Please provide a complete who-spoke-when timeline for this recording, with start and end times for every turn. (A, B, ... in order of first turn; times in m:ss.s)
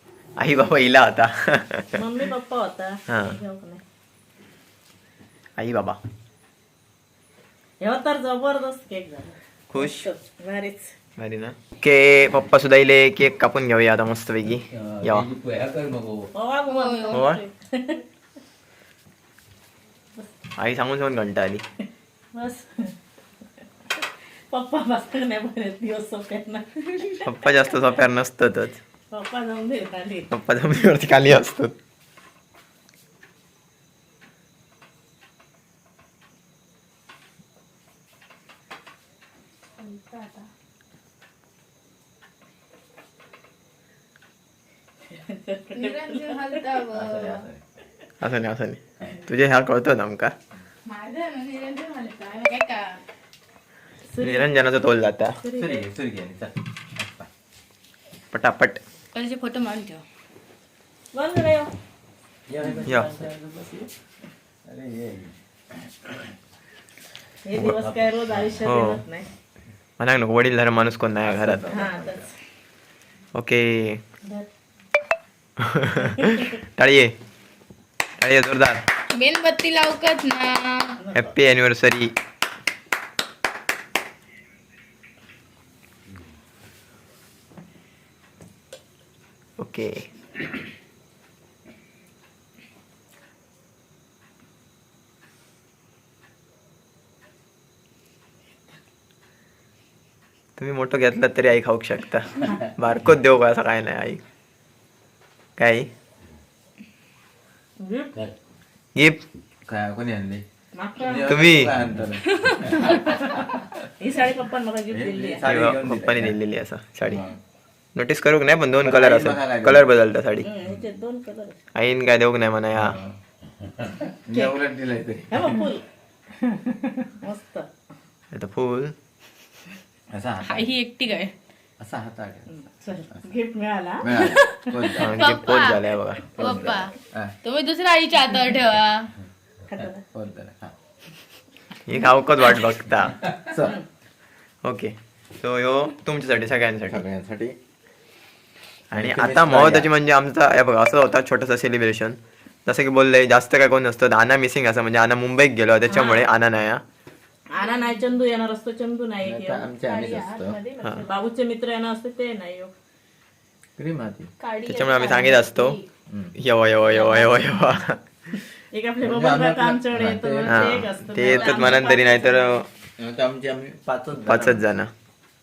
0:00.4-0:02.0 A
0:01.9-0:03.8 B
0:03.1-0:03.4 A
0:05.6-0:06.0 A
0:07.8-0:10.9 B
0:09.7-0:10.1 A
0:11.2-0:15.3 A
0:14.7-0:16.3 C
0:16.4-0:18.0 B
0:16.7-0:17.3 D
0:17.1-0:17.4 A
0:20.6-0:21.6 A
0:22.3-0:22.9 B
0:24.0-0:27.3 B
0:27.2-0:28.8 A
0:29.1-0:30.3 B
0:30.3-0:31.8 A
0:39.8-0:40.5 D
0:45.1-0:46.7 B
0:45.7-0:47.4 D
0:46.9-0:47.6 C
0:48.2-0:50.3 A
0:50.8-0:53.0 D
0:54.1-0:54.5 B
0:54.2-0:55.4 A
0:55.4-0:55.9 B
0:55.6-0:57.3 C
0:58.3-0:58.8 A
0:59.1-1:00.0 D
1:01.1-1:01.7 B
1:02.5-1:03.9 C
1:02.8-1:03.1 A
1:04.6-1:05.3 C
1:07.4-1:09.3 B
1:07.8-1:08.4 C
1:08.6-1:09.0 A
1:10.0-1:11.8 A
1:11.2-1:12.3 C
1:11.7-1:12.3 B
1:13.4-1:14.0 A
1:15.6-1:17.1 A
1:18.2-1:18.8 A
1:19.1-1:21.0 D
1:21.0-1:21.3 B
1:21.1-1:22.1 A
1:29.6-1:30.0 A
1:40.6-1:44.2 A
1:45.6-1:45.9 A
1:47.8-1:48.1 B
1:49.0-1:49.2 A
1:49.7-1:50.4 C
1:50.8-1:51.6 B
1:51.0-1:53.1 C
1:51.3-1:51.7 A
1:52.2-1:53.4 B
1:54.0-1:55.5 B
1:54.9-1:56.4 C
1:55.4-1:57.2 A
1:57.0-1:57.4 C
1:58.0-2:00.5 A
1:58.8-1:59.9 C
2:00.4-2:01.6 B
2:01.8-2:03.0 A
2:02.7-2:05.6 C
2:05.3-2:05.8 B
2:06.4-2:07.7 B
2:08.3-2:09.0 A
2:10.1-2:10.7 C
2:10.4-2:11.3 D
2:11.8-2:12.5 C
2:12.5-2:15.0 B
2:14.0-2:15.3 C
2:15.0-2:16.8 A
2:15.1-2:19.1 D
2:16.4-2:17.4 C
2:19.7-2:20.0 B
2:19.8-2:20.7 C
2:21.9-2:23.2 A
2:23.2-2:23.8 C
2:24.6-2:27.0 A
2:26.9-2:27.6 C
2:28.9-2:36.8 A
2:28.9-2:29.9 C
2:35.9-2:36.3 B
2:37.5-2:39.7 B
2:37.6-2:38.0 D
2:39.2-2:40.6 C
2:39.8-2:41.1 D
2:41.1-2:42.7 B
2:43.8-2:44.3 C
2:44.4-2:45.9 D
2:44.7-2:45.8 A
2:46.1-2:46.4 C
2:46.4-2:48.0 A
2:46.8-2:47.5 D
2:48.7-2:52.6 B
2:49.0-2:50.9 C
2:50.5-2:52.7 A
2:53.0-2:54.6 C
2:54.3-2:54.9 A